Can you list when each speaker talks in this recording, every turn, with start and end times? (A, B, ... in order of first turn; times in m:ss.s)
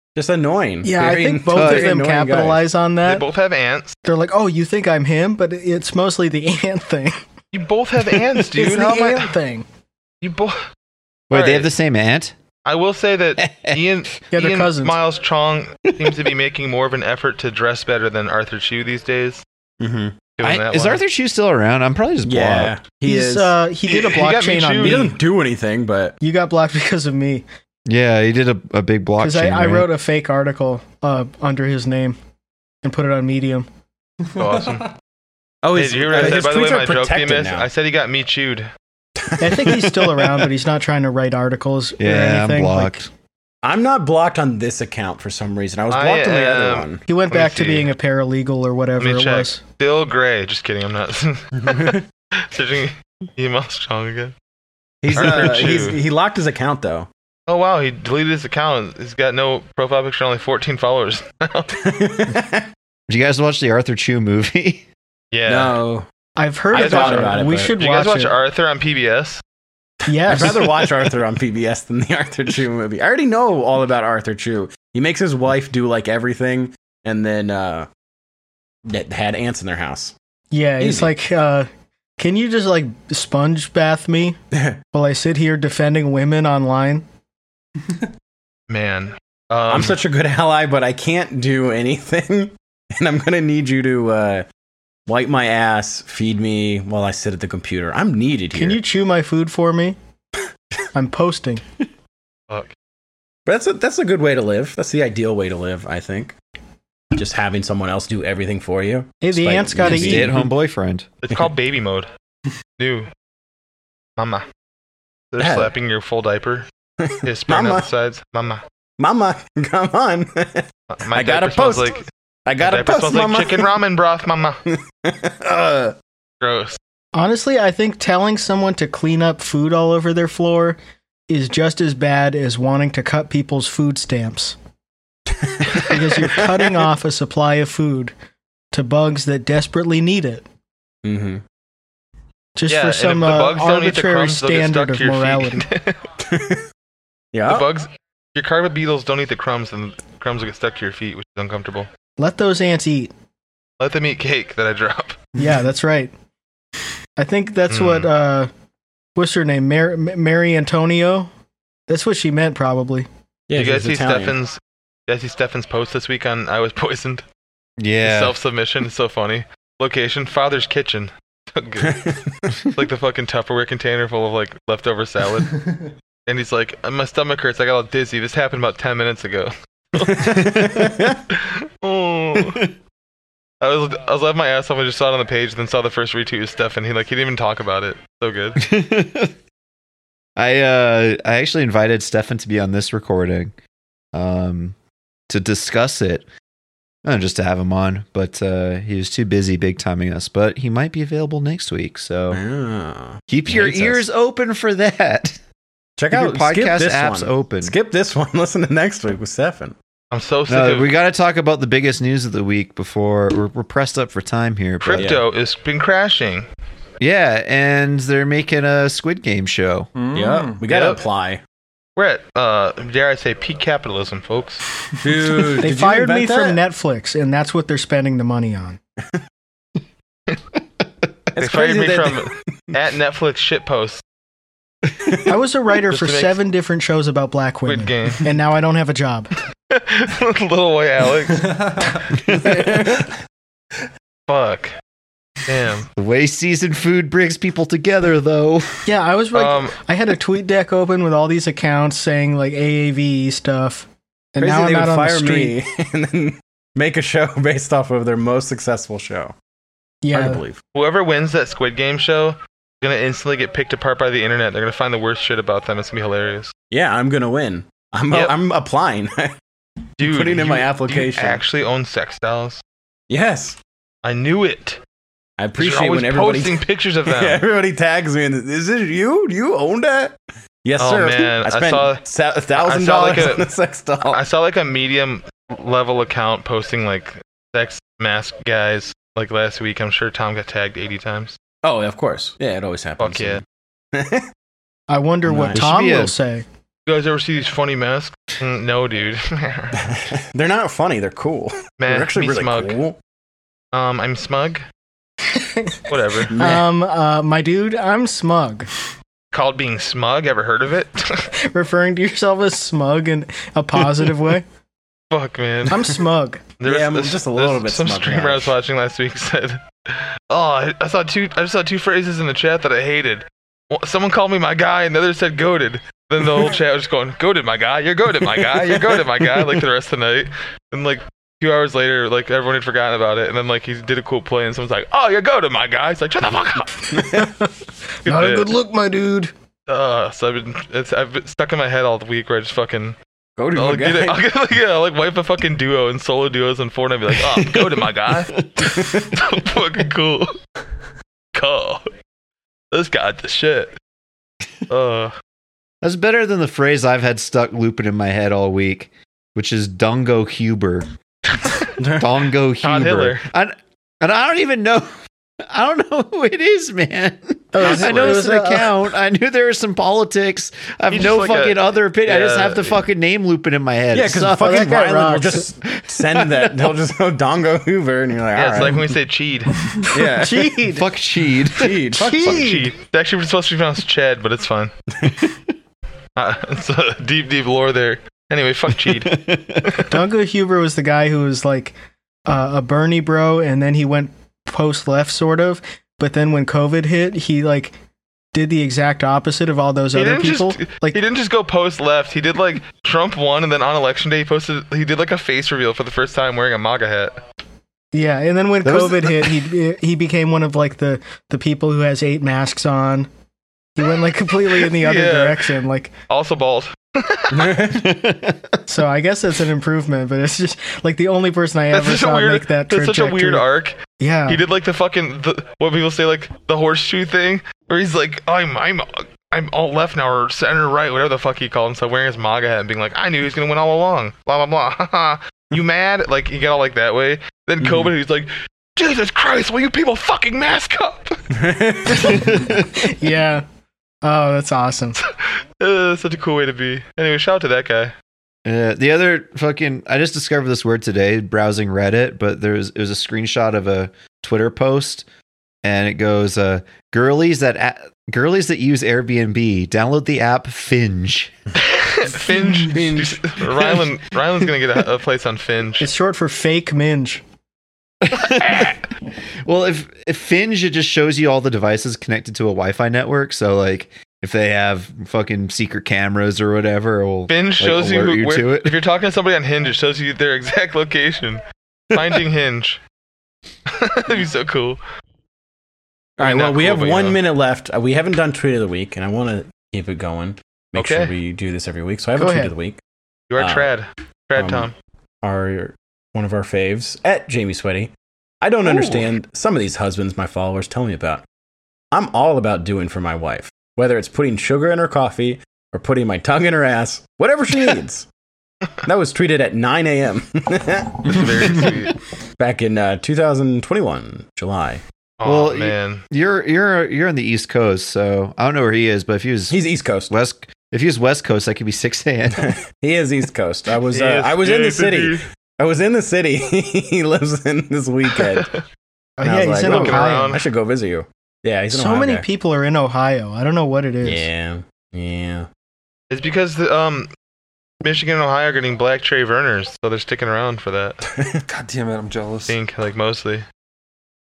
0:00.2-0:02.6 A
0:00.8-0:03.2 B
0:01.5-0:01.9 C
0:03.0-0:04.0 D
0:04.0-0:07.2 B
0:07.5-0:09.3 D
0:08.5-0:09.6 B
0:10.2-0:10.7 D
0:11.3-0:12.4 C
0:11.3-0:11.7 D
0:12.7-0:19.4 D
0:13.4-0:13.8 C
0:14.3-0:15.0 B
0:19.8-0:20.2 A
0:20.4-0:21.0 D
0:20.4-0:22.8 C
0:22.2-0:23.6 A
0:23.0-0:25.1 B
0:23.9-0:25.1 D
0:24.8-0:26.2 A
0:26.2-0:27.4 B
0:27.9-0:29.9 C
0:29.2-0:32.2 B
0:32.8-0:33.7 B
0:34.4-0:34.9 D
0:34.4-0:34.8 E
0:35.6-0:37.7 A
0:35.7-0:38.7 D
0:39.2-0:40.4 A
0:39.4-0:43.0 B
0:42.0-0:43.1 C
0:43.6-0:47.0 A
0:45.9-0:47.9 D
0:47.1-0:49.6 B
0:49.0-0:54.3 D
0:51.6-0:52.0 A
0:55.0-0:57.1 A
0:55.1-0:56.0 D
0:57.5-1:01.7 D
1:01.8-1:02.7 A
1:03.1-1:04.8 C
1:05.3-1:05.8 D
1:05.5-1:06.1 A
1:06.4-1:08.4 B
1:06.7-1:07.7 A
1:06.7-1:09.4 D
1:10.1-1:10.7 B
1:10.2-1:17.9 A
1:18.9-1:20.1 A
1:20.5-1:24.4 B
1:20.8-1:21.1 A
1:24.5-1:24.8 A
1:24.9-1:27.0 B
1:28.7-1:30.0 D
1:29.7-1:34.5 A
1:35.1-1:38.8 A
1:38.5-1:40.0 B
1:40.9-1:41.6 B
1:43.5-1:46.4 A
1:47.1-1:50.5 A
1:49.2-1:50.4 B
1:49.8-1:51.1 C
1:51.2-1:52.1 D
1:52.8-1:53.1 D
1:54.2-1:54.4 D
1:55.3-1:56.7 D
1:55.4-1:55.7 A
1:57.0-1:57.9 A
1:57.2-1:58.6 D
1:59.0-2:03.7 A
2:01.0-2:02.0 D
2:02.6-2:04.6 D
2:04.7-2:06.0 A
2:06.4-2:06.8 D
2:07.2-2:10.8 B
2:11.3-2:14.6 B
2:15.3-2:16.8 A
2:15.8-2:18.1 B
2:18.7-2:20.4 B
2:21.0-2:21.4 A
2:22.6-2:25.7 B
2:22.7-2:26.0 D
2:26.2-2:26.7 A
2:27.3-2:27.7 A
2:27.4-2:31.9 D
2:32.2-2:33.1 B
2:33.8-2:35.2 D
2:35.4-2:36.1 B
2:37.2-2:38.5 B
2:37.7-2:38.1 D
2:39.2-2:41.3 B
2:41.9-2:43.1 B
2:43.5-2:44.4 A
2:43.5-2:47.2 D
2:47.8-2:48.4 C
2:48.0-2:52.0 D
2:51.8-2:52.5 A
2:52.8-2:55.6 D
2:56.3-3:02.6 D
3:00.0-3:01.2 A
3:02.4-3:02.6 C
3:03.6-3:08.6 D
3:08.6-3:09.3 C
3:10.4-3:13.5 C
3:14.1-3:14.8 C
3:15.3-3:16.3 C
3:17.0-3:22.4 C
3:22.3-3:24.0 A
3:23.3-3:25.4 C
3:26.0-3:29.8 A
3:26.1-3:27.8 C
3:30.1-3:30.9 D
3:30.5-3:35.1 C
3:34.8-3:36.5 D
3:34.9-3:35.2 A
3:37.0-3:39.9 C
3:40.0-3:40.6 E
3:40.1-3:41.4 A
3:40.7-3:41.0 D
3:42.0-3:44.6 D
3:45.0-3:46.6 A
3:45.1-3:45.6 E
3:45.6-3:48.8 B
3:51.3-3:52.6 A
3:51.4-3:54.0 D
3:55.3-3:59.3 B
3:55.9-3:56.4 D
3:57.6-3:58.3 D
3:59.7-4:01.5 D
4:01.4-4:02.0 E
4:02.5-4:03.0 A
4:04.3-4:04.8 D
4:05.5-4:05.9 D
4:06.0-4:08.7 C
4:08.9-4:15.6 B
4:09.3-4:09.8 D
4:14.4-4:19.3 A
4:20.0-4:20.4 B
4:20.1-4:20.6 A
4:20.8-4:26.5 D
4:26.7-4:29.3 A
4:28.1-4:28.4 D
4:30.0-4:32.6 D
4:30.0-4:31.4 A
4:33.1-4:33.6 A
4:34.0-4:34.8 D
4:35.4-4:44.2 A
4:35.6-4:37.4 D
4:40.8-4:42.0 D
4:42.6-4:43.5 D
4:44.1-4:51.4 D
4:51.6-4:54.3 A
4:53.0-4:53.4 D
4:54.9-4:56.4 B
4:55.3-4:55.6 A
4:55.5-4:56.2 C
4:56.9-4:59.8 D
4:59.9-5:03.0 A
5:01.8-5:02.8 D
5:03.7-5:04.6 D
5:05.4-5:05.8 B
5:05.9-5:06.3 D
5:06.3-5:06.6 A
5:06.4-5:08.7 B
5:09.3-5:11.3 D
5:11.5-5:14.4 B
5:15.1-5:16.0 D
5:15.7-5:16.4 B
5:16.6-5:37.2 D
5:16.6-5:18.5 A
5:36.9-5:37.3 A
5:38.0-5:38.6 D
5:38.1-5:39.3 B
5:39.7-5:43.0 D
5:43.4-5:44.2 A
5:43.5-5:50.3 D
5:47.4-5:48.7 C
5:51.4-5:51.8 D
5:52.7-5:53.7 D
5:54.7-5:55.1 D
5:55.8-6:00.9 C
6:01.3-6:01.7 D
6:01.8-6:02.1 A
6:02.0-6:04.9 C
6:02.6-6:03.2 D
6:05.4-6:14.7 C
6:07.5-6:08.7 B
6:07.6-6:08.2 A
6:10.9-6:12.8 D
6:13.9-6:18.9 A
6:14.3-6:15.5 B
6:15.8-6:16.8 C
6:18.4-6:19.5 D
6:19.9-6:20.8 A
6:20.2-6:20.8 B
6:20.7-6:22.1 C
6:21.5-6:22.6 A
6:22.0-6:22.7 B
6:22.3-6:24.7 D
6:25.1-6:25.4 C
6:26.2-6:29.9 D
6:28.8-6:29.8 C
6:29.9-6:31.8 B
6:32.3-6:37.8 B
6:38.3-6:41.0 B
6:39.9-6:47.2 D
6:47.9-6:53.1 B
6:48.6-6:49.3 C
6:53.8-6:55.9 B
6:54.7-6:55.5 D
6:56.1-6:57.6 D
6:57.3-6:58.0 A
6:57.8-6:58.6 C
6:58.7-7:03.4 B
7:01.7-7:03.8 D
7:04.0-7:04.4 B
7:04.3-7:21.2 D
7:17.6-7:17.9 A
7:21.4-7:22.5 A
7:22.0-7:23.4 B
7:24.0-7:25.0 B
7:25.1-7:27.9 D
7:28.4-7:35.1 C
7:35.6-7:41.3 C
7:41.6-7:45.9 D
7:42.1-7:43.9 A
7:45.8-7:47.2 B
7:48.0-7:48.8 C
7:49.4-7:58.8 C
7:57.3-8:01.4 D
8:01.9-8:02.8 D
8:03.7-8:04.8 D
8:06.2-8:12.8 A
8:06.2-8:07.2 D
8:10.8-8:11.1 D
8:12.2-8:12.5 B
8:13.3-8:14.7 D
8:13.4-8:13.7 A
8:14.4-8:14.7 A
8:15.2-8:21.2 A
8:18.6-8:19.0 D
8:21.9-8:28.1 A
8:28.8-8:31.7 A
8:31.1-8:32.0 D
8:32.4-8:34.8 A
8:35.2-8:36.0 D
8:35.2-8:42.6 C
8:39.5-8:40.1 A
8:42.4-8:48.6 A
8:43.9-8:45.2 D
8:49.2-8:50.4 B
8:49.2-8:52.2 A
8:49.6-8:50.5 D
8:51.7-8:54.3 B
8:54.0-8:55.5 A
8:56.1-8:57.1 D
8:57.8-9:01.0 D
9:01.1-9:01.4 A
9:01.5-9:02.6 E
9:02.5-9:03.4 D